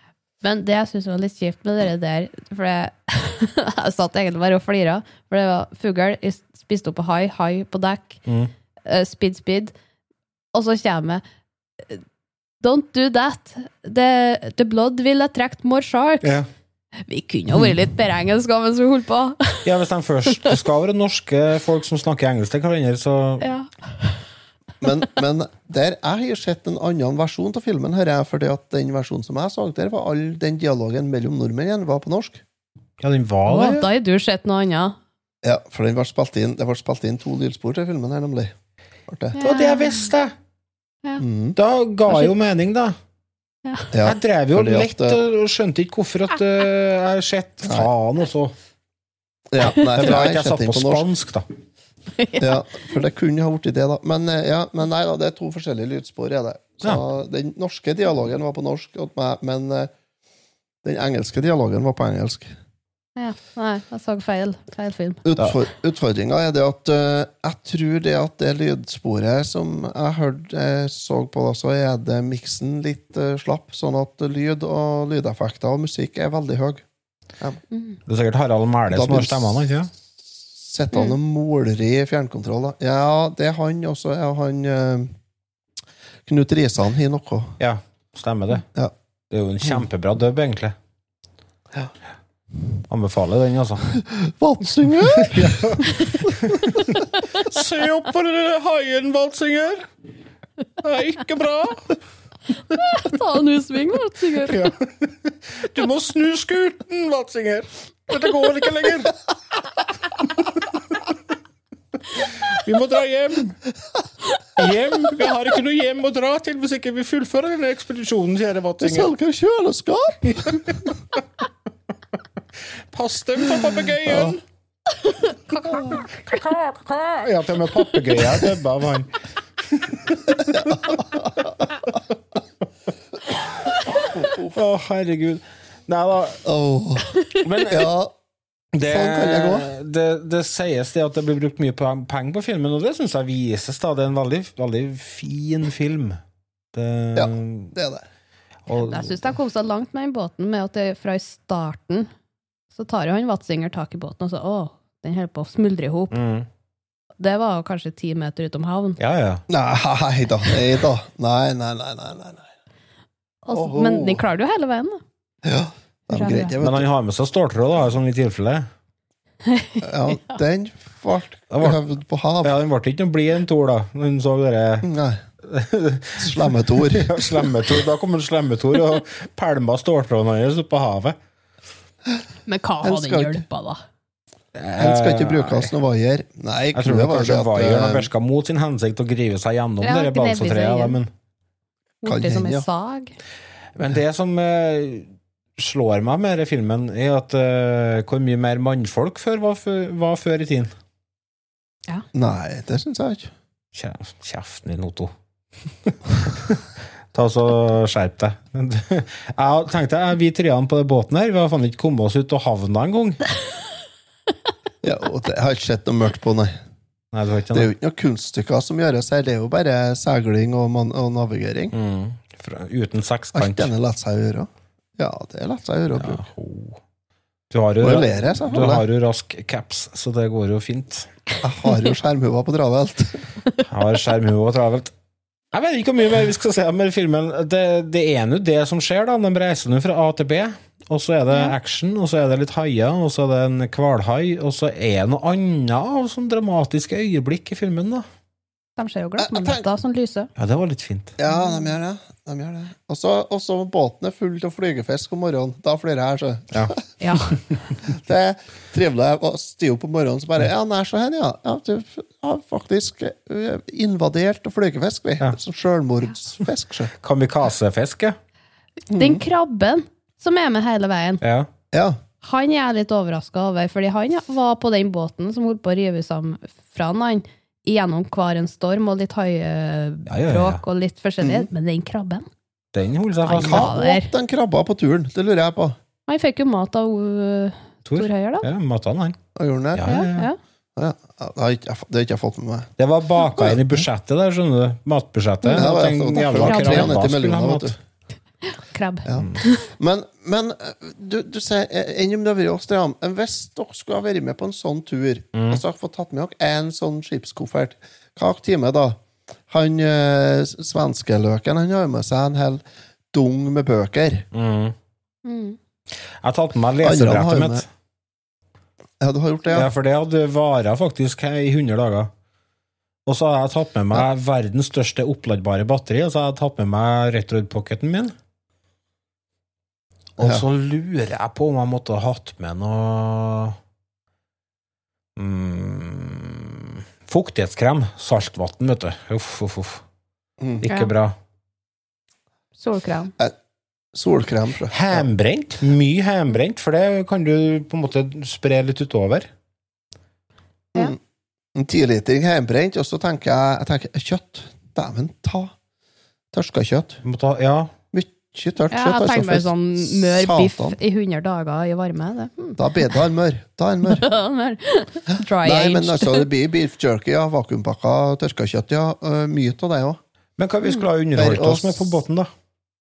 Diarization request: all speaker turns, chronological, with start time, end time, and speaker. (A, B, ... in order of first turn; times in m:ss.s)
0:00.4-0:08.2 A
0:08.2-0:08.5 B
0:08.8-0:09.7 A
0:10.5-0:11.2 A
0:12.6-0:16.4 A
0:16.2-0:16.5 B
0:17.0-0:19.6 A
0:19.6-0:23.4 B
0:23.4-0:24.2 A
0:24.8-0:32.4 C
0:33.0-0:33.8 B
0:33.5-0:35.0 A
0:35.4-0:38.5 C
0:39.1-0:39.4 C
0:39.3-0:40.1 A
0:39.4-0:40.3 B
0:41.2-0:41.6 C
0:41.6-0:43.0 B
0:43.9-0:45.2 C
0:44.0-0:48.5 B
0:47.6-0:47.9 C
0:49.5-0:51.1 C
0:49.7-0:51.4 B
0:52.2-0:52.6 A
0:52.4-0:59.9 C
1:00.8-1:02.5 C
1:03.2-1:05.2 A
1:05.2-1:16.8 C
1:17.7-1:18.0 A
1:18.1-1:19.9 B
1:18.9-1:25.1 C
1:26.2-1:27.5 C
1:27.6-1:28.6 B
1:29.3-1:30.7 B
1:32.9-1:33.9 B
1:34.0-1:36.8 C
1:35.3-1:39.9 B
1:40.8-1:42.0 B
1:42.8-1:44.6 A
1:44.4-1:49.2 B
1:52.2-1:53.6 B
1:54.6-1:59.1 B
1:58.8-2:00.8 C
2:00.3-2:00.6 B
2:02.9-2:04.4 B
2:04.0-2:04.4 C
2:05.5-2:06.0 A
2:05.7-2:09.1 B
2:09.6-2:11.0 B
2:10.5-2:11.5 C
2:14.1-2:14.6 C
2:14.5-2:16.4 B
2:16.4-2:17.1 C
2:17.4-2:17.9 B
2:17.7-2:18.1 C
2:18.7-2:26.2 B
2:18.9-2:19.7 C
2:26.7-2:27.8 B
2:27.1-2:28.0 C
2:28.7-2:29.2 B
2:28.7-2:32.1 A
2:32.7-2:36.2 A
2:36.1-2:36.5 B
2:37.2-2:39.0 A
2:39.0-2:39.4 B
2:39.5-2:42.5 C
2:43.4-2:45.0 A
2:43.5-2:44.2 C
2:45.4-2:46.9 C
2:46.1-2:46.5 A
2:46.6-2:48.7 B
2:49.5-2:50.4 A
2:49.8-2:52.6 C
2:51.5-2:51.8 B
2:52.4-2:54.9 B
2:54.8-2:55.2 C
2:55.4-3:01.2 B
2:56.2-2:57.5 C
3:02.5-3:03.8 A
3:02.8-3:03.4 C
3:04.6-3:05.7 B
3:04.8-3:08.1 C
3:06.7-3:11.1 B
3:09.8-3:11.0 A
3:12.0-3:13.1 A
3:12.0-3:12.6 C
3:13.8-3:20.7 B
3:22.1-3:23.3 C
3:23.7-3:25.1 B
3:25.8-3:26.6 B
3:27.1-3:33.2 B
3:34.8-3:36.5 C
3:37.1-3:37.7 B
3:37.5-3:41.7 C
3:41.7-3:43.7 B
3:43.3-3:46.2 C
3:46.0-3:46.8 B
3:47.5-3:51.1 B
3:47.8-3:48.8 C
3:51.4-3:53.3 C
3:53.7-3:54.9 B
3:55.5-4:08.0 B
4:08.8-4:10.3 A
4:09.2-4:09.7 C
4:10.4-4:11.1 B
4:11.2-4:16.8 C
4:11.3-4:11.6 A
4:17.0-4:17.4 A
4:17.8-4:26.9 C
4:27.0-4:28.2 B
4:28.9-4:29.2 C
4:28.9-4:31.2 A
4:31.2-4:31.5 B
4:31.7-4:32.0 C
4:32.2-4:42.3 A
4:40.1-4:40.6 B
4:41.2-4:41.5 C
4:42.7-4:43.7 B
4:43.2-4:44.1 A
4:43.4-4:45.8 C
4:46.1-4:48.4 A
4:47.9-4:49.2 B
4:49.4-4:49.9 C
4:49.7-4:50.3 B
4:49.9-4:50.4 A
4:50.8-4:52.7 C
4:52.8-4:57.8 B
4:53.2-4:53.8 C
4:55.4-4:56.9 A
4:55.5-4:57.8 C
4:58.4-4:59.6 A
4:59.1-5:14.2 C
4:59.1-4:59.4 B
5:05.3-5:05.6 B
5:14.3-5:14.7 B
5:15.2-5:15.6 A
5:16.2-5:17.6 B
5:16.8-5:17.6 C
5:19.0-5:19.7 C
5:19.5-5:22.1 B
5:23.0-5:28.1 B
5:30.2-5:33.6 B
5:30.2-5:30.4 C
5:35.2-5:39.8 B
5:40.6-5:41.1 B
5:42.6-5:43.1 A
5:43.9-5:45.0 C
5:44.7-5:49.3 B
5:51.5-5:55.5 C
5:56.3-5:57.0 C
5:57.0-5:57.7 B
5:57.9-6:00.8 C
5:58.7-6:03.0 A
6:02.6-6:04.0 C
6:03.9-6:06.3 A
6:05.4-6:10.0 C
6:10.4-6:12.3 B
6:11.1-6:12.0 C